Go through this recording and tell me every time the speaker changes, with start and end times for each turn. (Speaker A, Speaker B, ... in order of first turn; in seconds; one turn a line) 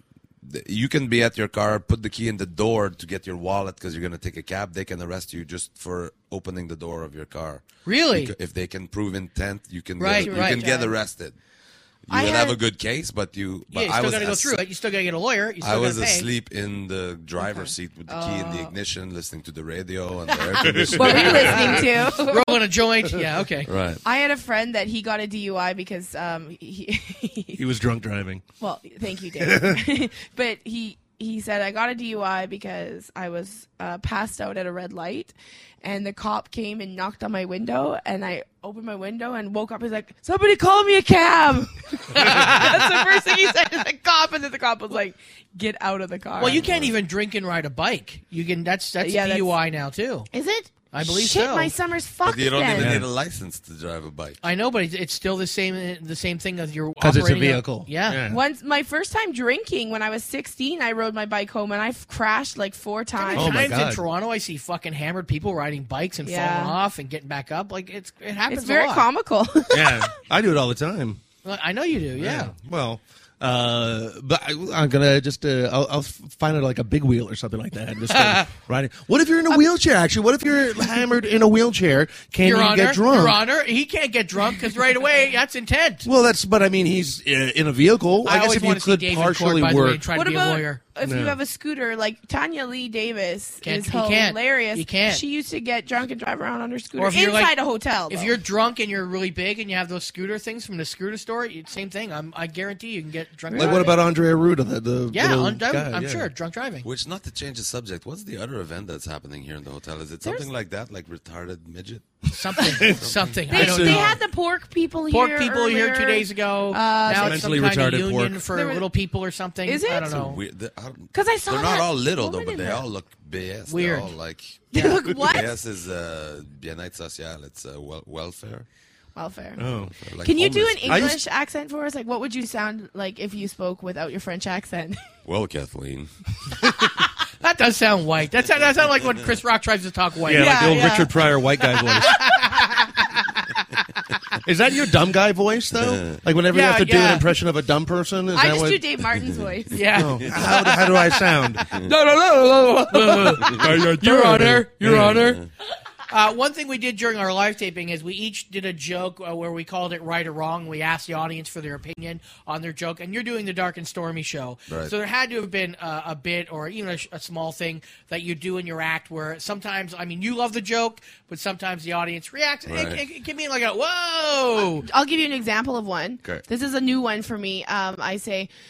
Speaker A: 0.4-11.4
Speaker B: 7.8-8.3
Speaker B: 10.0-10.6
Speaker C: 10.2-10.9
Speaker A: 12.1-14.7
Speaker C: 12.1-12.6
Speaker B: 13.7-16.3
Speaker A: 15.6-21.9
Speaker C: 17.4-18.7
Speaker C: 20.3-22.6
Speaker D: 20.6-21.9
Speaker B: 22.2-23.7
Speaker A: 23.6-24.0
Speaker C: 24.0-27.6
Speaker D: 27.6-28.4
Speaker C: 28.6-46.6
Speaker D: 29.4-29.8
Speaker B: 42.1-42.8
Speaker B: 46.4-50.3
Speaker A: 46.4-46.9
Speaker C: 49.0-49.5
Speaker C: 50.3-53.0
Speaker B: 50.9-51.7
Speaker A: 52.2-54.4
Speaker D: 52.8-53.1
Speaker B: 54.4-58.2
Speaker D: 57.0-58.4
Speaker C: 58.3-63.8
Speaker B: 63.2-69.1
Speaker D: 63.3-64.0
Speaker C: 66.2-66.8
Speaker C: 68.5-70.1
Speaker D: 69.7-71.2
Speaker B: 71.4-72.5
Speaker D: 72.2-83.4
Speaker B: 78.1-78.5
Speaker B: 82.4-86.1
Speaker D: 86.0-90.0
Speaker B: 88.2-90.8
Speaker C: 90.1-98.4
Speaker D: 91.0-91.4
Speaker B: 93.6-95.2
Speaker B: 97.0-97.5
Speaker B: 98.1-103.9
Speaker C: 103.5-103.9
Speaker D: 103.5-106.3
Speaker B: 105.1-106.9
Speaker A: 106.8-112.1
Speaker C: 110.2-110.5
Speaker B: 112.3-114.2
Speaker D: 112.8-114.2
Speaker A: 112.9-113.4
Speaker C: 113.5-117.6
Speaker B: 115.1-120.4
Speaker D: 117.1-118.4
Speaker C: 118.5-118.9
Speaker C: 119.6-120.1
Speaker A: 120.0-128.7
Speaker C: 121.1-122.8
Speaker B: 123.7-124.1
Speaker C: 124.7-125.5
Speaker C: 129.1-129.7
Speaker D: 129.6-129.9
Speaker A: 130.0-131.2
Speaker C: 130.2-135.1
Speaker D: 130.9-131.2
Speaker A: 135.2-136.7
Speaker B: 137.4-140.9
Speaker D: 140.3-142.3
Speaker C: 140.3-141.3
Speaker B: 142.1-143.8
Speaker D: 144.4-148.8
Speaker A: 145.8-146.2
Speaker B: 146.5-147.3
Speaker C: 148.3-149.8
Speaker B: 149.7-150.9
Speaker D: 149.9-155.4
Speaker A: 151.7-151.9
Speaker B: 151.9-155.4
Speaker A: 155.1-155.5
Speaker B: 156.1-174.9
Speaker A: 164.7-164.9
Speaker A: 172.7-173.0
Speaker C: 174.6-178.5